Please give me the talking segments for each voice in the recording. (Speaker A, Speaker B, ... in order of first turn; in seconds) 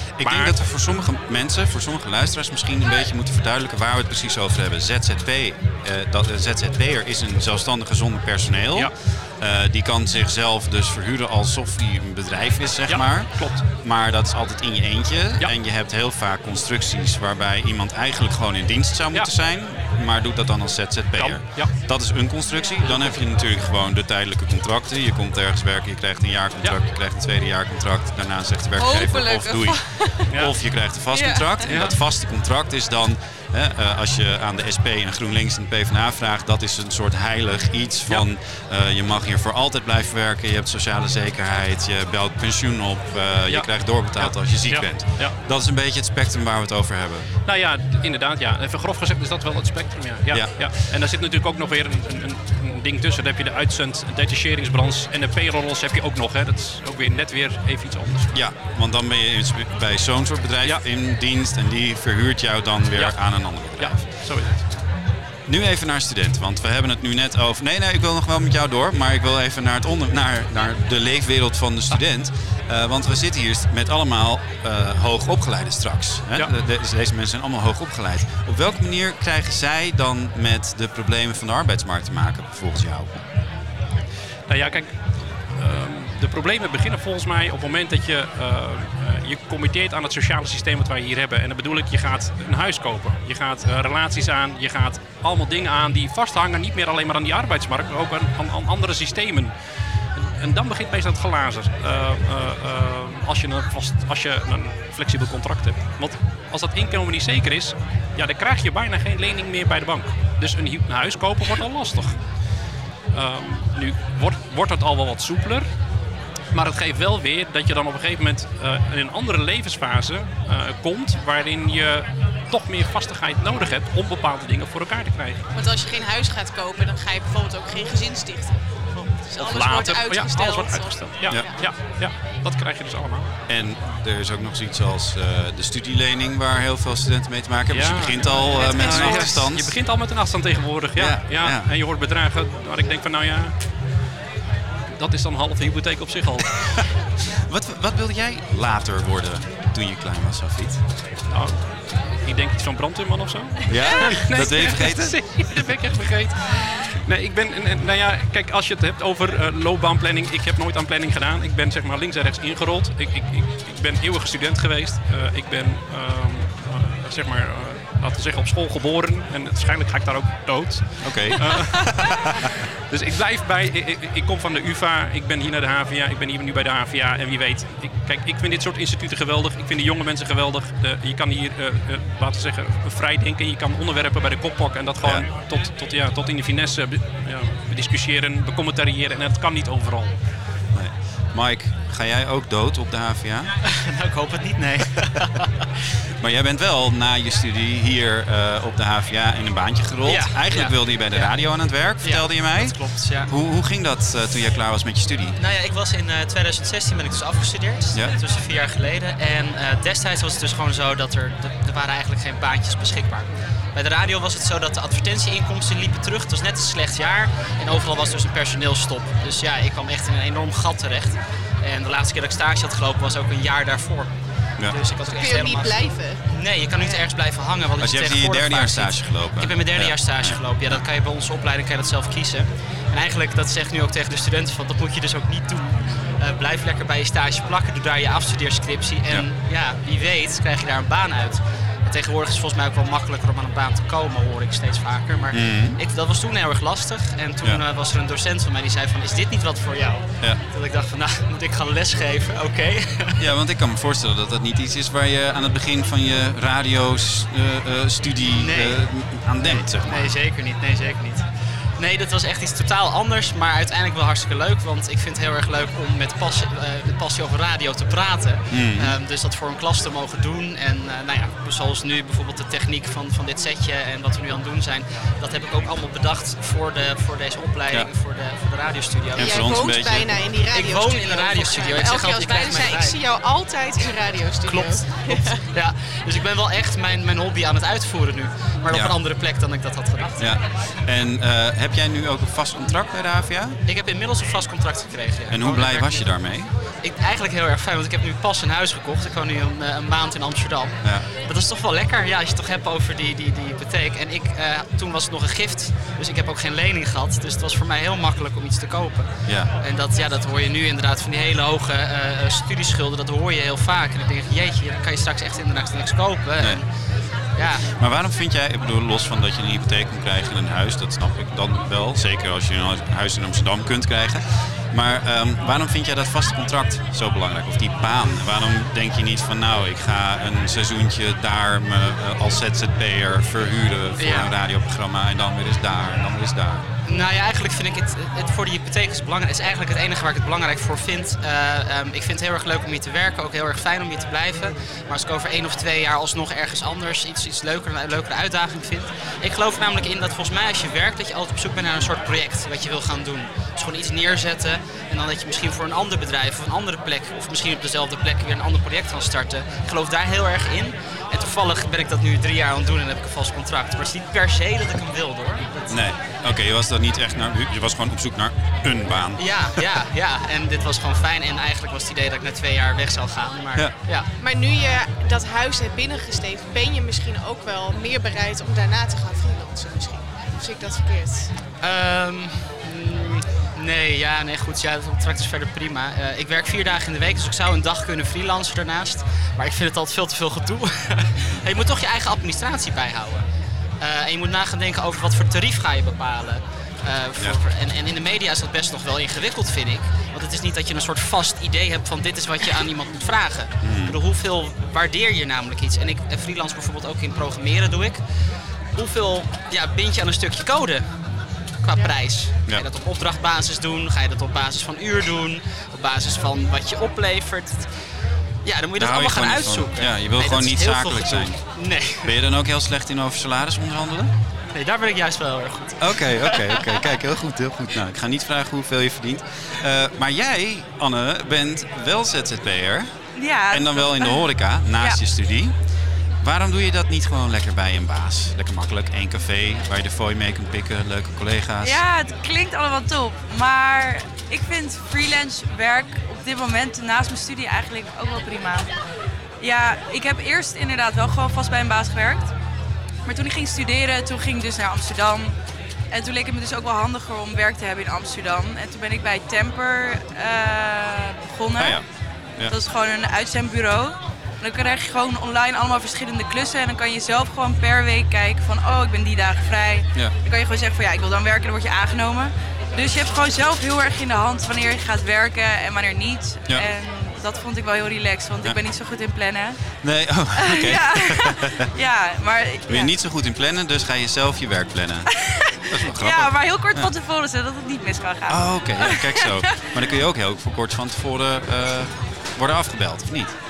Speaker A: 0.2-47.3, 50.3-50.7, 58.3-64.0, 65.5-83.2, 133.5-139.8, 141.0-141.7, 147.5-150.8, 153.7-155.7, 171.0-172.1, 190.7-193.5, 194.6-195.3, 196.2-205.4, 227.8-230.4, 245.3-245.8, 253.2-260.1, 268.5-269.0, 279.1-280.1, 290.2-293.6, 295.3-296.5, 309.3-309.5, 317.8-336.6, 365.7-369.6, 403.6-404.0, 418.8-421.4, 422.0-424.1, 425.8-432.9, 433.5-435.5, 436.2-441.8, 461.6-461.8, 479.8-481.6, 482.7-486.9, 488.3-493.3
Speaker B: 0.2-0.6, 12.9-13.7, 21.2-21.7, 22.8-23.2, 31.7-32.0, 43.5-45.4, 47.5-58.5, 63.0-64.6, 84.5-84.9, 85.5-99.5, 100.2-112.3, 113.1-115.7, 116.5-125.4, 128.9-133.3, 137.7-143.5, 144.9-146.8, 151.3-190.1
Speaker C: 28.8-30.3, 31.1-31.7, 125.5-128.6, 129.2-131.7, 225.1-226.2, 226.8-227.0, 279.2-285.5, 374.2-381.3
Speaker D: 193.7-195.5, 200.1-203.3, 205.4-253.2, 258.4-279.6, 280.5-283.0, 284.4-290.4, 293.7-316.7, 317.4-317.7, 334.0-334.3, 336.9-365.9, 369.2-374.1, 381.6-393.2, 393.8-408.0, 408.8-410.9, 411.6-417.6, 418.4-422.1, 424.5-426.9
Speaker E: 433.1-435.0, 441.6-448.7, 449.4-452.3, 453.1-455.4, 455.9-461.8, 462.5-479.6, 480.4-482.9, 485.2-489.3